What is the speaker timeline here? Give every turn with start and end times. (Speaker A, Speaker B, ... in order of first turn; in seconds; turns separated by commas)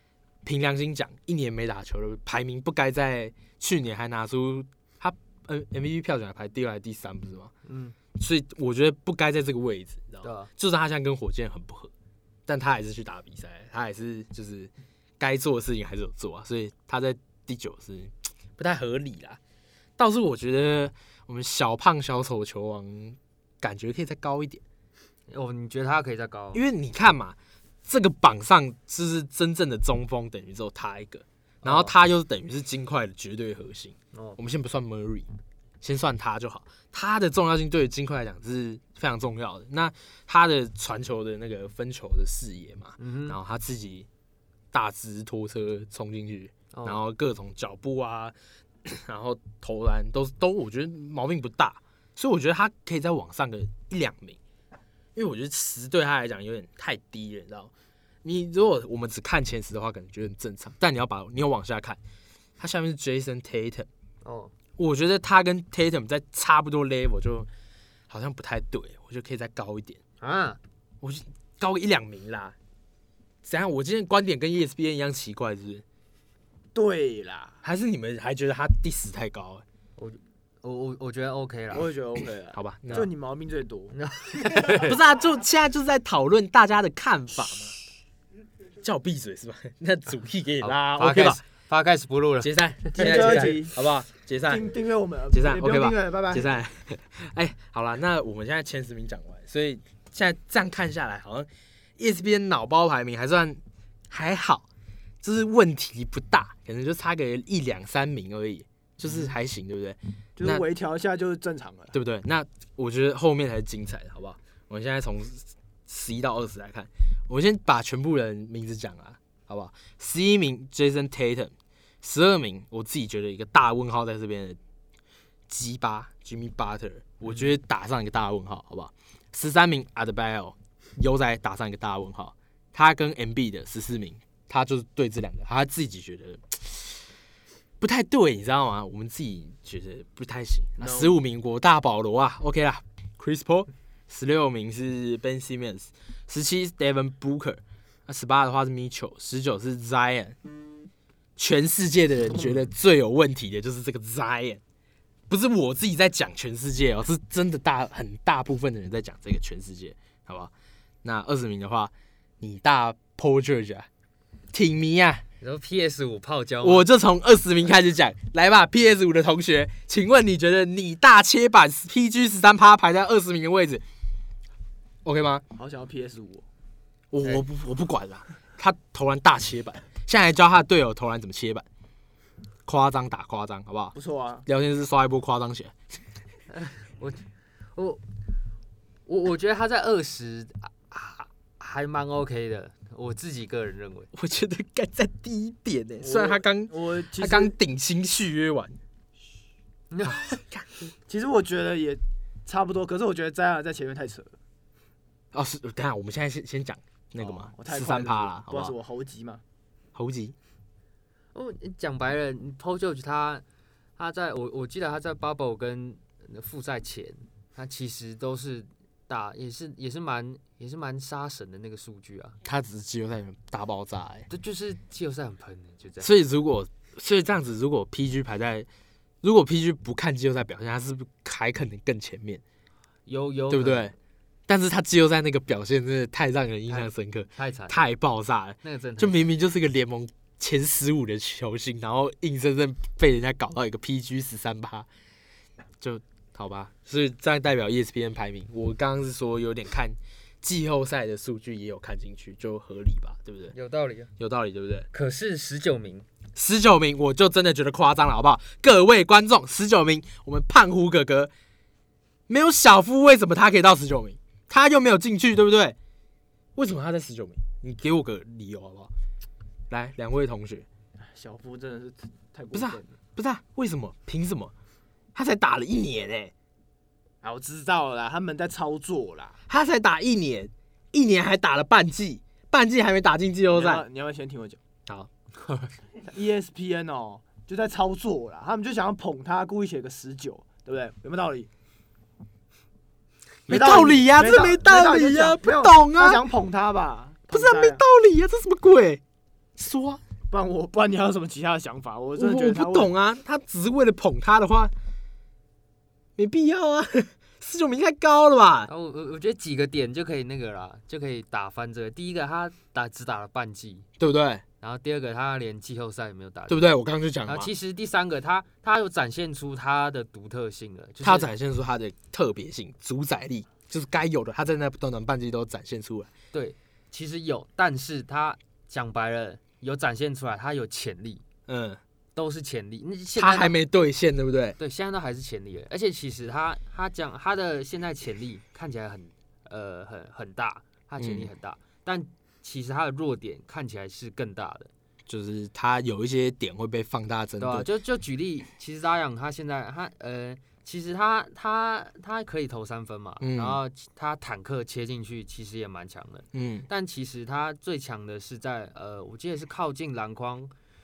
Speaker A: 0.5-7.5, Speaker B: 7.7-8.0, Speaker A: 8.2-11.9, Speaker B: 10.2-10.5, Speaker A: 12.5-19.4, Speaker A: 20.0-24.6, Speaker B: 25.3-26.6, Speaker A: 26.5-35.3, Speaker B: 31.6-31.9, Speaker B: 34.1-34.4, Speaker A: 35.8-44.1, Speaker B: 43.0-43.4, Speaker A: 44.7-54.4, Speaker B: 46.7-47.0, Speaker A: 55.1-57.7, Speaker A: 58.2-62.0, Speaker A: 62.6-63.9, Speaker B: 64.2-64.5, Speaker A: 64.8-67.5, Speaker A: 68.1-70.0, Speaker B: 70.2-70.6, Speaker A: 71.0-72.5, Speaker A: 73.4-75.8, Speaker C: 76.7-77.6, Speaker A: 77.6-79.6, Speaker B: 80.0-81.9, Speaker C: 81.7-84.0, Speaker A: 82.5-83.1, Speaker B: 83.9-85.0, Speaker A: 84.8-87.7, Speaker A: 88.8-91.4, Speaker B: 90.6-93.5, Speaker A: 92.4-94.7, Speaker C: 92.9-93.8, Speaker C: 94.5-96.5, Speaker A: 95.3-104.7, Speaker A: 105.2-110.7, Speaker C: 110.4-111.9, Speaker A: 111.9-124.6, Speaker A: 125.5-137.0, Speaker A: 137.8-150.4, Speaker C: 140.8-141.1, Speaker A: 151.4-154.6, Speaker A: 155.3-160.5, Speaker A: 161.0-163.9, Speaker A: 164.5-165.2, Speaker B: 165.4-166.9, Speaker A: 166.6-173.8, Speaker A: 175.1-175.4, Speaker C: 175.6-176.4, Speaker A: 177.1-181.7, Speaker A: 182.7-183.9, Speaker C: 183.9-184.4, Speaker A: 184.5-185.8, Speaker B: 186.5-187.2, Speaker B: 187.8-188.0, Speaker B: 189.1-194.1, Speaker A: 194.1-198.8, Speaker C: 196.0-197.6, Speaker B: 199.9-200.3, Speaker A: 200.1-200.7, Speaker C: 201.1-204.3, Speaker A: 205.3-208.8, Speaker C: 207.2-209.4, Speaker A: 209.9-210.3, Speaker B: 211.3-213.4, Speaker B: 214.0-222.4, Speaker A: 222.4-224.3, Speaker B: 224.3-226.1, Speaker A: 226.0-228.7, Speaker A: 229.2-232.4, Speaker B: 233.1-233.9, Speaker A: 233.5-233.9, Speaker A: 234.5-244.9, Speaker B: 236.7-237.8, Speaker B: 238.6-239.3, Speaker A: 245.8-253.6, Speaker B: 253.5-254.1, Speaker A: 254.2-254.9, Speaker B: 254.9-256.1, Speaker A: 256.4-261.3, Speaker A: 262.3-265.8, Speaker A: 266.6-268.9, Speaker A: 269.7-270.7, Speaker C: 271.0-272.9, Speaker A: 272.5-274.5, Speaker A: 275.1-276.3, Speaker C: 277.2-279.4, Speaker A: 279.5-283.9, Speaker C: 283.5-284.6, Speaker A: 284.9-285.7, Speaker C: 286.0-291.5, Speaker A: 293.5-296.2, Speaker C: 293.5-297.8, Speaker A: 297.3-299.0, Speaker A: 299.6-300.0, Speaker C: 300.3-302.9, Speaker A: 302.2-304.7, Speaker A: 306.2-308.7, Speaker B: 308.7-313.9, Speaker A: 314.0-314.4, Speaker B: 314.6-316.7, Speaker A: 316.5-317.5, Speaker B: 317.2-321.3, Speaker A: 321.0-326.1, Speaker B: 326.3-331.2, Speaker A: 331.5-331.8, Speaker B: 332.1-333.6, Speaker A: 333.1-334.6, Speaker B: 334.6-344.7, Speaker A: 341.0-341.3, Speaker A: 345.1-347.7, Speaker B: 347.4-360.5, Speaker A: 353.2-353.6, Speaker A: 356.3-356.7